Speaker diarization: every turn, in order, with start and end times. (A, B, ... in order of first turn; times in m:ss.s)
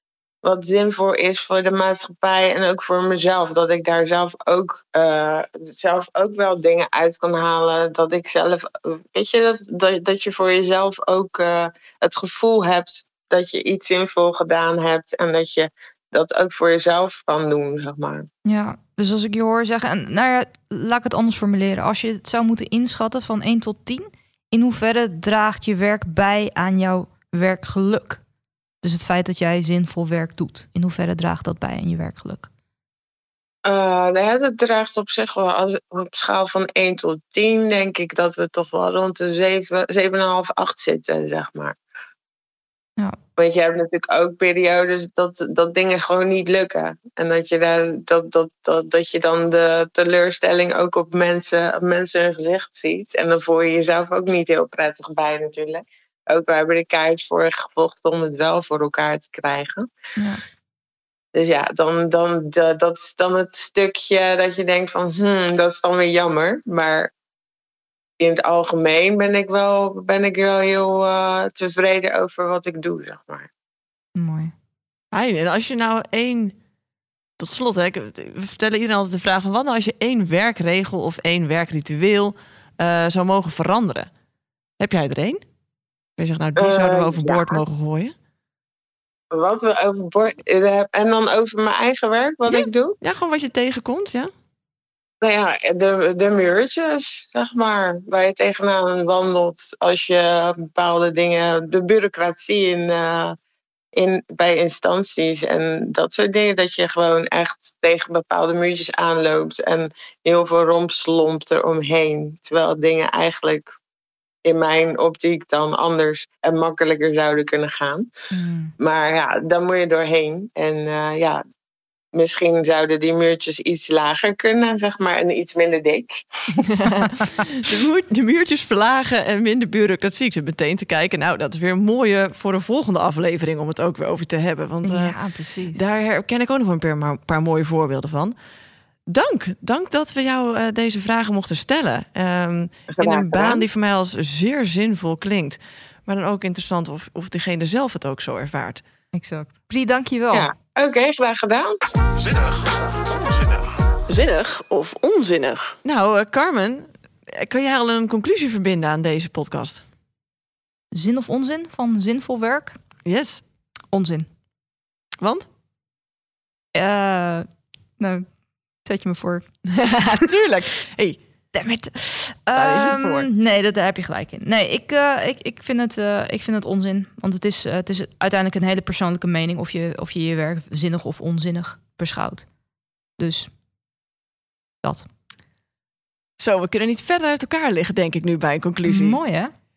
0:00.4-0:18.3 A
0:18.4-0:28.2 B
0:28.8-0:32.5 B
0:33.6-0:41.8 A
0:43.4-0:59.9 A
1:00.2-1:00.4 B
1:01.3-1:07.1 A
1:08.2-1:13.5 A
1:14.2-1:14.5 B
1:15.1-1:16.6 C
1:17.4-1:24.1 C
1:24.8-1:25.4 C
1:26.2-1:28.1 C
1:26.6-1:27.6 A
1:29.3-1:33.0 A
1:32.5-1:34.3 C
1:35.2-1:43.4 A
1:43.9-1:53.6 A
1:54.4-1:58.1 A
1:58.3-1:58.7 B
1:58.8-2:01.4 A
2:02.1-2:06.6 A
2:06.5-2:15.2 C
2:14.8-2:15.8 B
2:15.7-2:18.3 C
2:19.1-2:28.8 C
2:22.9-2:23.6 A
2:29.1-2:30.5 B
2:30.3-2:31.8 A
2:34.1-2:39.8 C
2:40.9-2:42.8 B
2:43.0-2:43.4 C
2:43.9-2:44.3 B
2:45.2-2:45.5 C
2:46.7-2:47.5 B
2:48.0-2:48.2 B
2:48.8-2:49.4 B
2:49.6-2:51.2 C
2:51.5-3:02.5 B
2:52.5-2:53.3 C
3:03.2-3:03.5 B
3:04.8-3:05.1 B
3:06.4-3:09.2 C
3:08.8-3:09.5 B